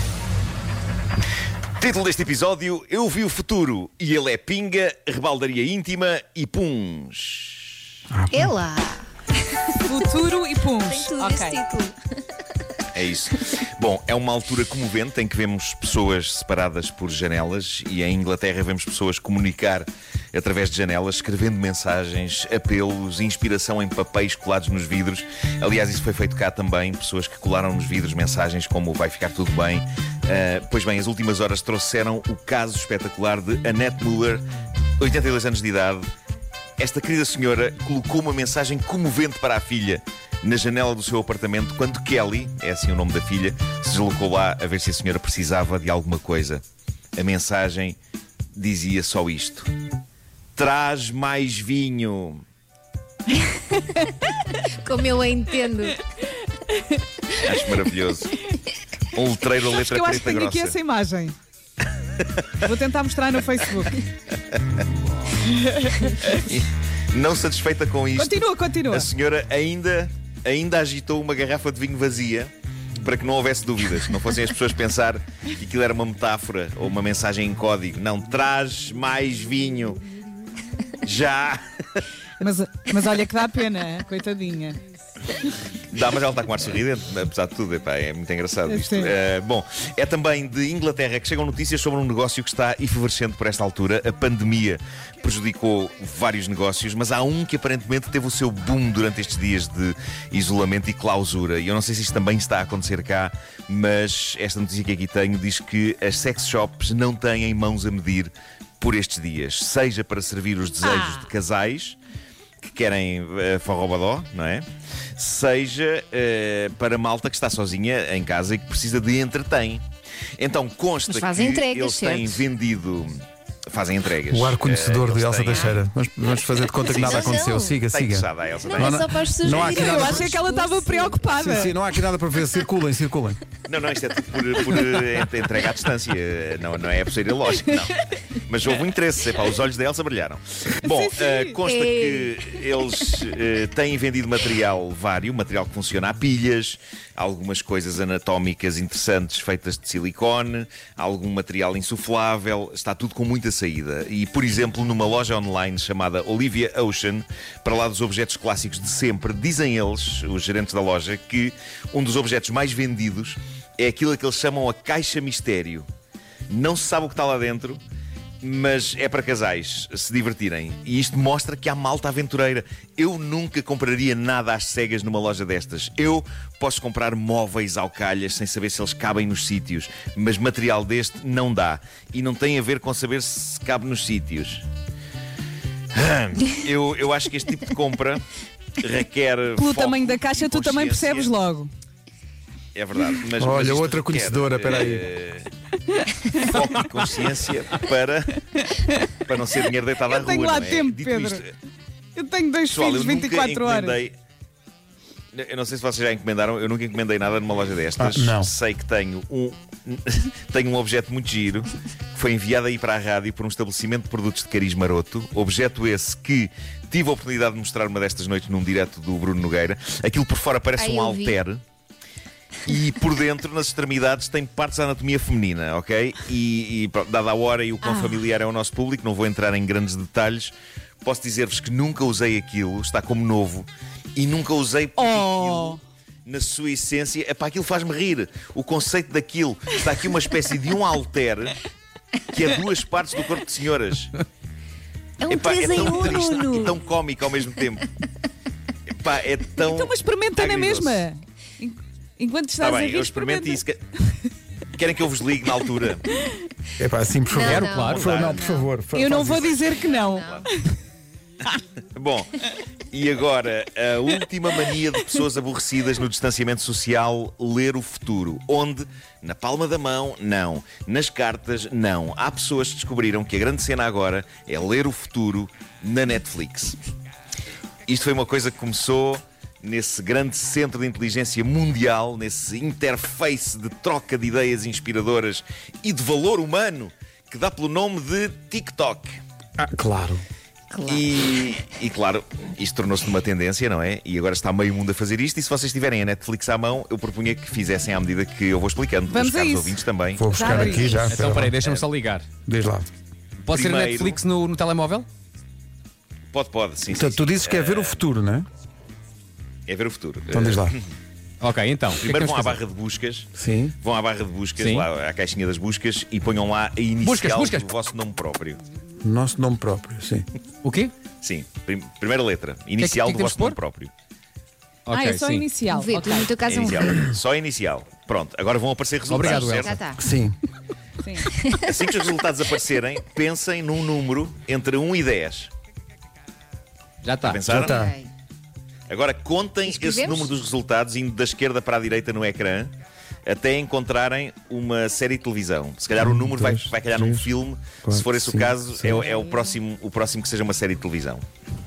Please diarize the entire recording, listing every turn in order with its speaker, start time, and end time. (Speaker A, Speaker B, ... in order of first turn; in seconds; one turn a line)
Speaker A: 1.8-7.8
Speaker B: 8.1-8.5
Speaker C: 8.3-10.0
Speaker D: 9.8-11.6
Speaker C: 10.8-12.0
Speaker A: 12.9-34.4
Speaker A: 35.0-36.0
Speaker A: 36.8-46.6
Speaker A: 47.1-48.0
Speaker A: 48.5-49.7
Speaker A: 50.5-52.4
Speaker D: 53.8-54.2
Speaker C: 54.7-56.0
Speaker A: 57.3-58.5
Speaker A: 59.1-60.8
Speaker D: 59.7-61.4
Speaker D: 62.6-64.0
Speaker D: 65.5-66.5
Speaker A: 66.2-80.0
Speaker D: 68.1-69.1
Speaker A: 81.0-81.6
Speaker D: 82.4-84.8
Speaker A: 85.9-112.0
Speaker D: 88.7-89.1
Speaker A: 112.6-119.8
Speaker A: 120.4-125.8
Speaker C: 121.1-122.4
Speaker B: 124.3-130.4
Speaker C: 126.8-127.8
Speaker A: 126.8-129.7
Speaker C: 128.6-131.2
Speaker D: 129.8-131.7
Speaker B: 131.3-133.4
Speaker A: 133.7-165.9
Speaker D: 140.8-141.6
Speaker C: 141.6-142.5
Speaker A: 166.5-167.8
Speaker A: 168.4-184.7
Speaker A: 185.9-188.2
Speaker A: 188.8-191.3
Speaker D: 189.6-191.7
Speaker A: 192.7-195.5
Speaker B: 193.4-195.1
Speaker D: 196.0-196.7
Speaker A: 196.2-198.4
Speaker D: 198.6-199.1
Speaker A: 199.1-201.5
Speaker D: 200.1-201.4
Speaker D: 202.2-204.0
Speaker A: 202.7-204.1
Speaker A: 205.3-221.6
Speaker B: 208.0-208.5
Speaker C: 220.8-221.4
Speaker A: 222.6-241.6
Speaker D: 235.0-235.8
Speaker A: 242.2-244.1
Speaker C: 245.2-246.8
Speaker A: 245.2-247.9
Speaker A: 248.9-251.1
Speaker D: 249.6-254.1
Speaker A: 252.6-253.8
Speaker A: 254.8-256.1
Speaker B: 256.8-259.6
Speaker C: 257.3-258.7
Speaker E: 257.3-258.1
Speaker A: 257.7-258.5
Speaker D: 258.9-260.6
Speaker A: 259.2-260.5
Speaker C: 259.8-260.4
Speaker A: 261.9-276.8
Speaker A: 277.9-289.2
Speaker B: 289.6-290.2
Speaker C: 290.7-291.0
Speaker A: 290.8-301.8
Speaker D: 299.1-299.8
Speaker B: 300.1-301.5
Speaker D: 300.3-300.9
Speaker C: 300.7-301.1
Speaker E: 301.0-302.2
Speaker B: 302.4-302.9
Speaker E: 303.4-305.1
Speaker A: 303.5-304.2
Speaker A: 306.3-308.1
Speaker B: 306.9-308.5
Speaker A: 309.6-310.9
Speaker B: 310.3-310.7
Speaker E: 311.4-312.6
Speaker A: 312.0-318.6
Speaker B: 313.4-313.8
Speaker E: 314.6-314.9
Speaker E: 317.0-317.7
Speaker B: 319.0-320.3
Speaker E: 320.6-320.9
Speaker A: 321.2-323.9
Speaker E: 322.8-323.6
Speaker E: 324.9-325.5
Speaker D: 324.9-326.3
Speaker C: 325.7-327.1
Speaker A: 326.5-329.8
Speaker E: 329.1-329.8
Speaker C: 329.2-330.0
Speaker B: 330.0-330.4
Speaker D: 331.0-331.3
Speaker C: 331.3-331.7
Speaker A: 331.6-335.5
Speaker E: 337.0-337.5
Speaker A: 337.2-337.8
Speaker B: 337.5-338.0
Speaker C: 337.5-338.1
Speaker A: 338.9-342.7
Speaker C: 339.7-340.3
Speaker A: 343.2-351.2
Speaker B: 346.0-347.3
Speaker B: 347.8-349.1